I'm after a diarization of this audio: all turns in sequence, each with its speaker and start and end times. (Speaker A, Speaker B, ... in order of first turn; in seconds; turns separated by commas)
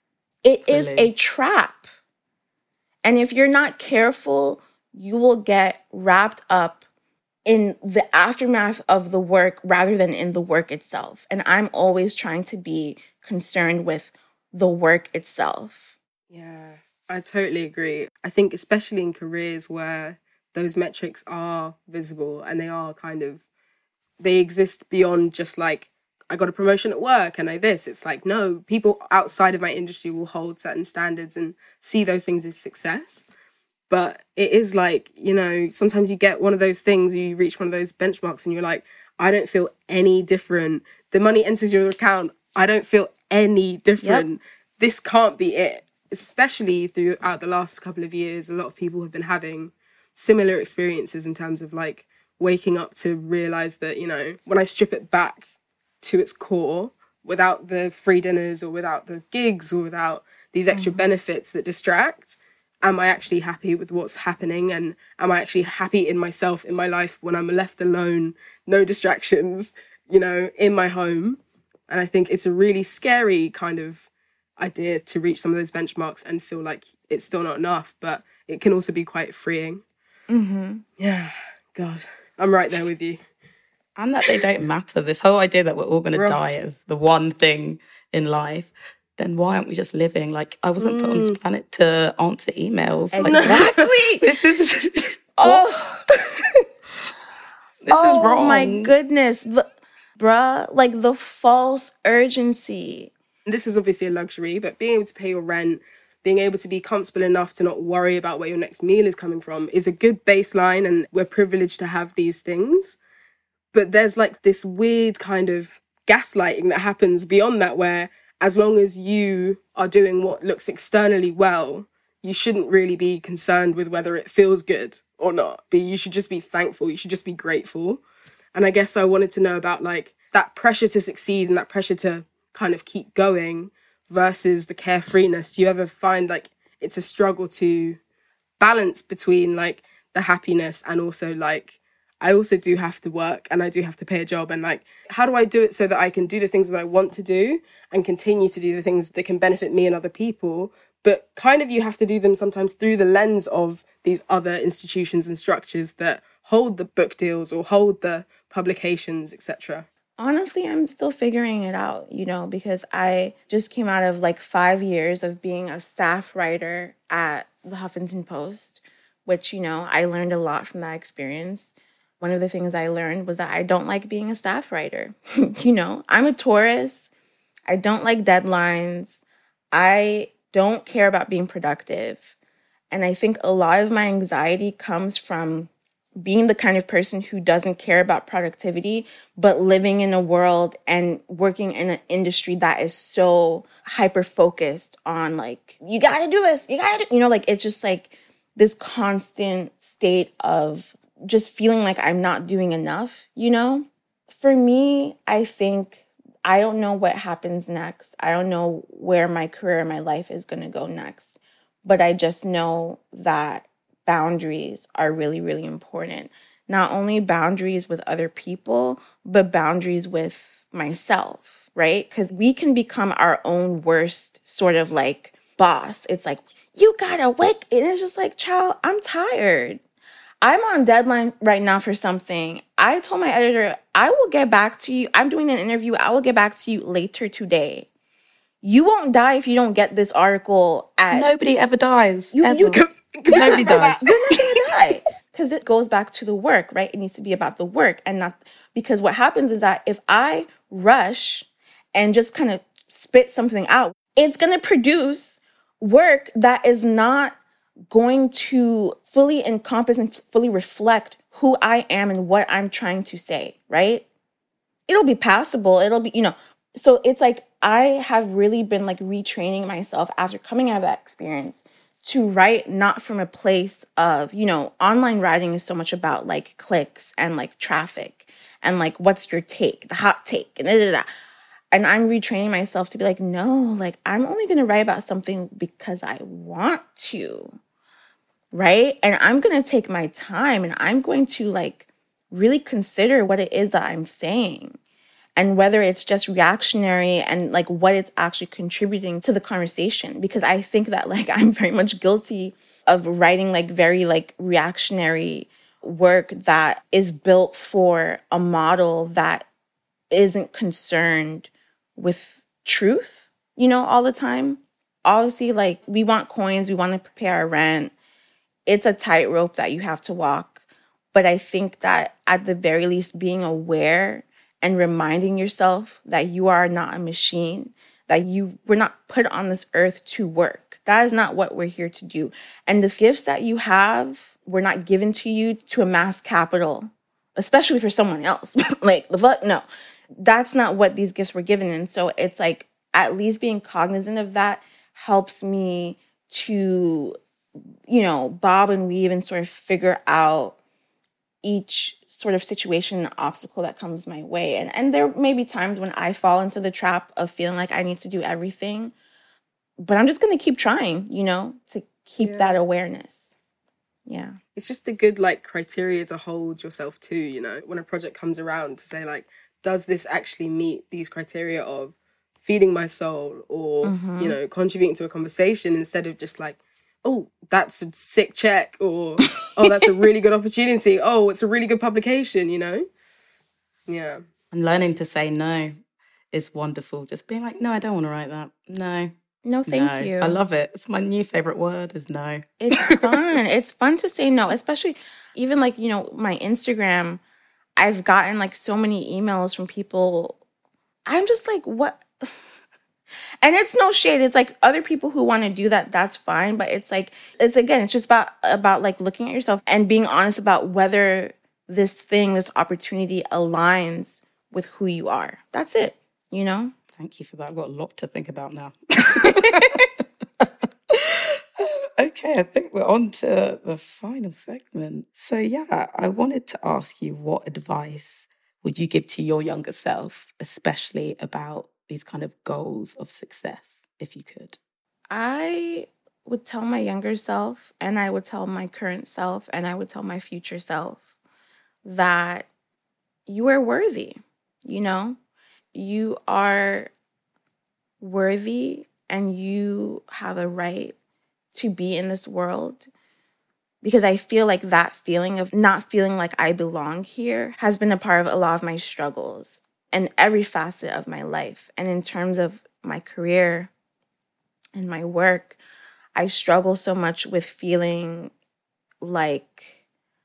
Speaker A: 0.4-1.9, Speaker B: 0.7-1.1, Speaker A: 3.0-6.8, Speaker A: 7.5-15.9, Speaker C: 16.3-23.4, Speaker C: 24.2-33.2, Speaker C: 33.9-55.5, Speaker C: 56.0-79.8, Speaker A: 60.7-61.0, Speaker A: 80.3-80.8, Speaker C: 81.0-83.2, Speaker B: 84.0-95.7, Speaker C: 86.1-86.4, Speaker C: 90.8-91.4, Speaker A: 93.1-94.2, Speaker C: 93.2-93.7, Speaker A: 95.4-96.0, Speaker B: 97.8-98.9, Speaker A: 97.9-103.1, Speaker C: 103.5-113.0, Speaker C: 113.7-128.0, Speaker C: 128.5-138.0, Speaker C: 138.6-159.9, Speaker A: 160.2-177.1, Speaker A: 177.7-179.2, Speaker A: 179.7-182.3, Speaker A: 182.9-185.7, Speaker A: 186.2-211.3, Speaker A: 211.8-229.8, Speaker A: 230.4-237.9, Speaker A: 238.6-241.3, Speaker B: 241.1-244.5, Speaker A: 242.3-257.4, Speaker C: 243.2-244.0, Speaker A: 257.9-264.1, Speaker A: 264.9-281.1, Speaker A: 281.7-287.6, Speaker A: 288.5-294.8, Speaker A: 295.4-309.4, Speaker A: 310.1-317.9, Speaker A: 318.6-320.6, Speaker A: 321.1-339.6, Speaker A: 340.2-347.1, Speaker A: 347.9-350.6, Speaker A: 351.4-358.9, Speaker A: 359.8-363.2, Speaker C: 362.2-362.6, Speaker A: 364.1-364.4, Speaker C: 364.5-382.9, Speaker A: 373.8-374.4, Speaker C: 383.9-384.2, Speaker B: 384.5-385.7, Speaker B: 386.3-389.1, Speaker A: 389.4-390.4, Speaker B: 389.7-393.2, Speaker A: 392.6-397.2, Speaker A: 397.8-400.4, Speaker A: 401.1-402.3, Speaker A: 403.4-416.7, Speaker B: 416.9-419.8, Speaker A: 419.1-419.5, Speaker B: 420.4-434.6, Speaker A: 435.1-441.1, Speaker A: 441.8-442.5, Speaker A: 443.3-445.2, Speaker A: 445.7-446.9, Speaker A: 448.0-450.9, Speaker A: 451.5-452.9, Speaker A: 453.8-463.7, Speaker A: 464.7-465.6, Speaker A: 466.1-468.3, Speaker A: 469.0-469.7